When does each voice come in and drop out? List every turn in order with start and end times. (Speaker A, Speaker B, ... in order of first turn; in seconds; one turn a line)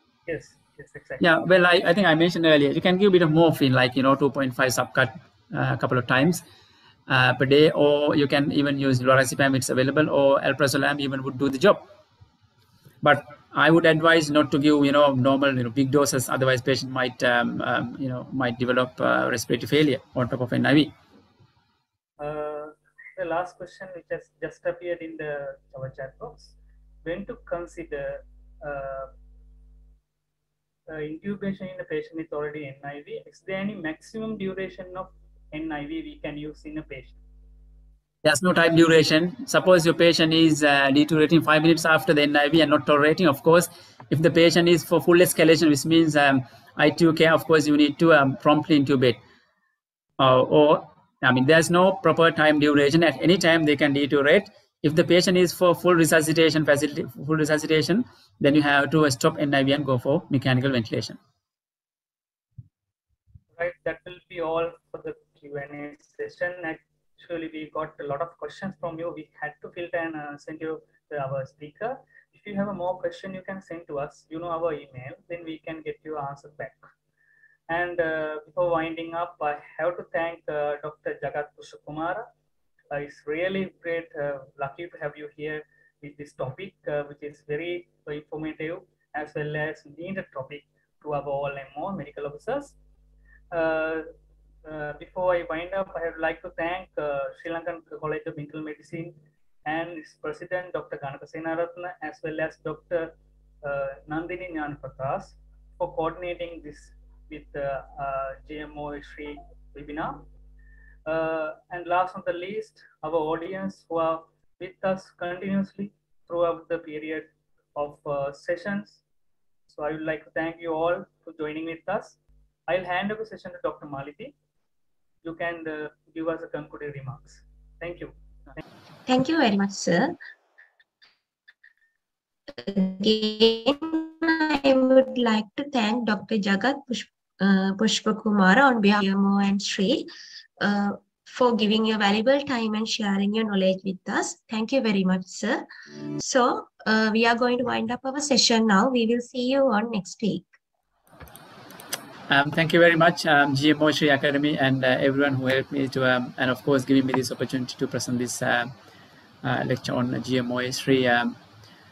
Speaker A: 0.3-1.2
Speaker B: 1.2-6.4
Speaker B: 7.1-11.9
Speaker B: 13.0-20.9
Speaker A: 22.2-29.1
Speaker A: 30.9-37.2
Speaker B: 38.2-49.2
Speaker B: 50.2-61.2
Speaker A: 63.6-76.8
Speaker A: 77.7-82.3
Speaker A: 82.9-92.8
Speaker A: 93.5-94.1
Speaker A: 94.7-110.2
Speaker A: 111.1-119.0
Speaker A: 119.7-124.3
Speaker A: 125.2-128.1
Speaker C: 129.1-130.2
Speaker C: 132.5-150.5
Speaker B: 152.3-158.7
Speaker B: 159.4-161.3